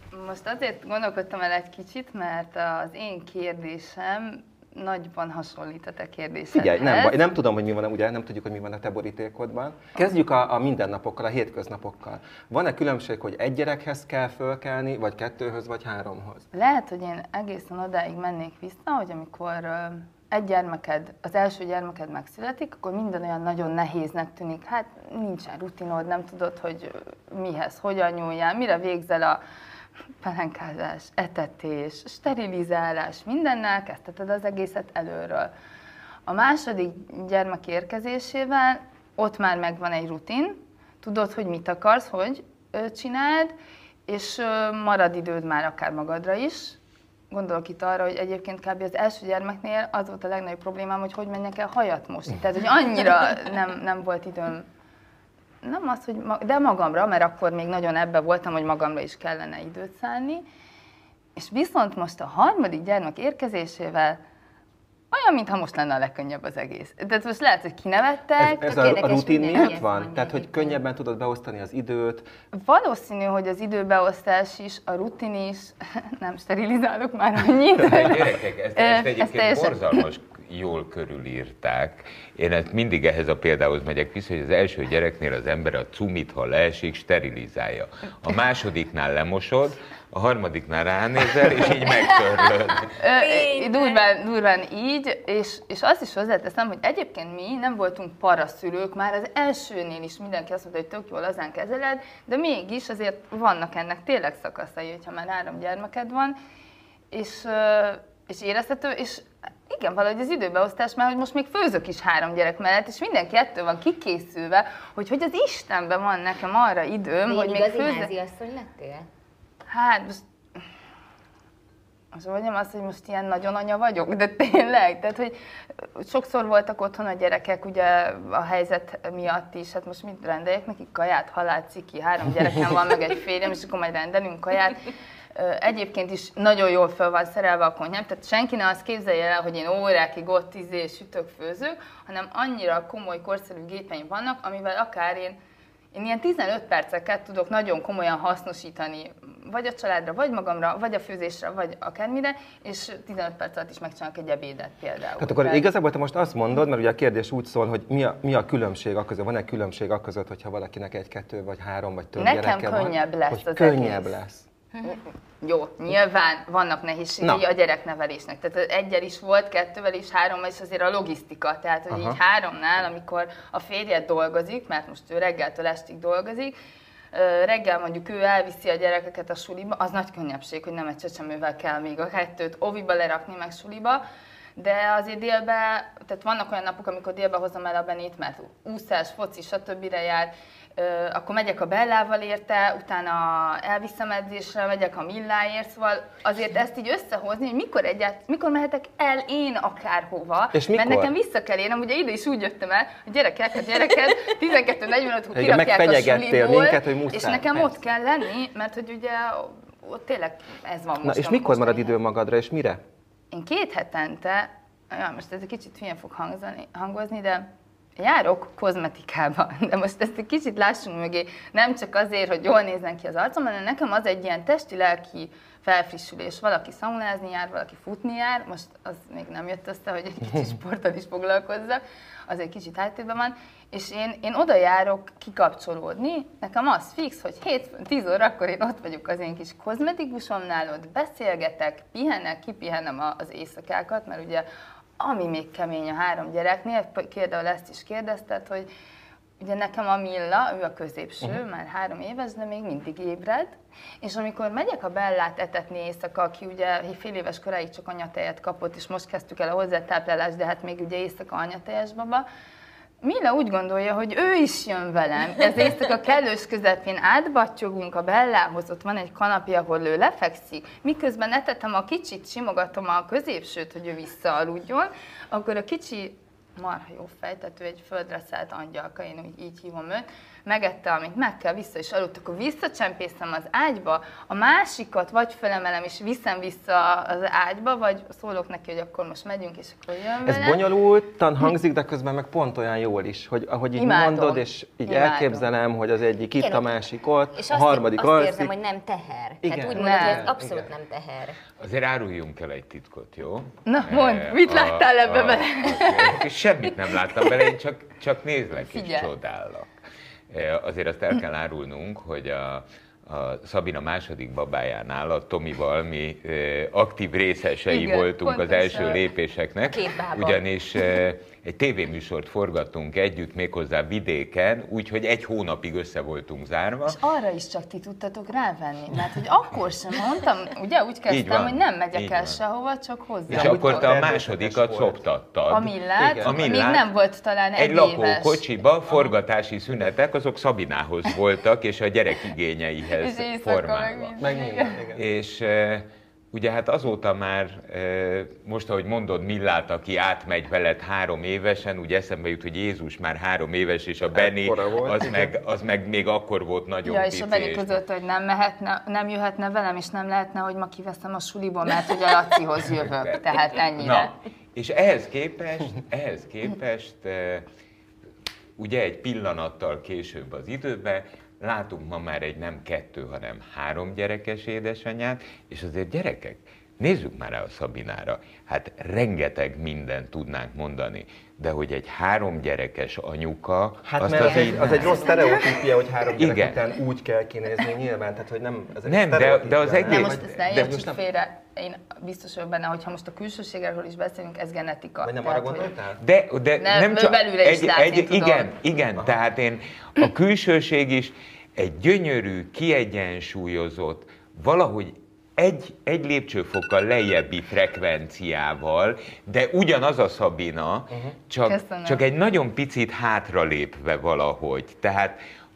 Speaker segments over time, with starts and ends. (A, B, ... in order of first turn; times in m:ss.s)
0:00.1-0:07.2 A
0:06.5-0:16.5 B
0:16.5-0:29.4 A
0:30.2-0:35.5 A
0:36.3-0:43.5 A
0:44.1-0:46.8 A
0:47.3-0:54.7 A
0:55.6-1:00.5 A
1:01.4-1:04.2 A
1:05.1-1:10.0 A
1:08.4-1:12.3 B
1:08.6-1:10.8 C
1:12.5-1:20.0 A
1:17.8-1:33.0 D
1:32.9-1:46.4 A
1:33.2-1:34.0 C
1:47.1-1:58.1 A
1:57.3-1:59.1 C
1:59.7-2:00.6 A
2:02.1-2:14.8 A
2:15.4-2:25.4 A
2:25.9-2:35.6 A
2:35.2-2:44.5 B
2:42.2-2:44.2 A
2:44.8-2:56.6 A
2:51.9-2:52.2 B
2:57.1-3:04.0 A
3:04.6-3:32.0 A
3:20.5-3:21.1 B
3:25.3-3:27.8 B
3:31.0-3:32.8 B
3:33.3-3:37.5 A
3:38.0-4:04.5 A
4:05.0-4:08.7 A
4:09.4-4:22.3 A
4:23.0-4:50.6 A
4:50.2-4:58.5 B
4:53.8-4:55.5 A
4:56.4-4:56.6 C
4:57.3-5:01.4 C
4:59.4-5:00.7 B
4:59.8-5:00.3 A
5:01.6-5:09.7 D
5:03.6-5:06.2 A
5:08.6-5:09.1 A
5:10.3-5:27.0 D
5:17.7-5:19.0 A
5:19.7-5:20.4 C
5:26.9-5:33.9 A
5:31.1-5:32.4 D
5:33.3-5:35.0 B
5:33.3-5:36.9 D
5:35.5-5:38.4 A
5:36.0-5:36.3 B
5:37.6-5:44.1 D
5:43.0-5:44.8 A
5:44.2-5:45.0 B
5:44.9-5:57.8 D
5:54.1-5:55.3 B
5:56.8-6:04.1 A
6:03.0-6:07.5 D
6:08.6-6:25.1 D
6:23.8-6:31.0 B
6:25.0-6:25.4 A
6:26.2-6:26.6 D
6:28.9-6:30.7 D
6:29.9-6:35.7 A
6:35.0-6:36.0 B
6:36.0-6:55.2 D
6:36.6-6:38.6 A
6:51.4-6:52.0 A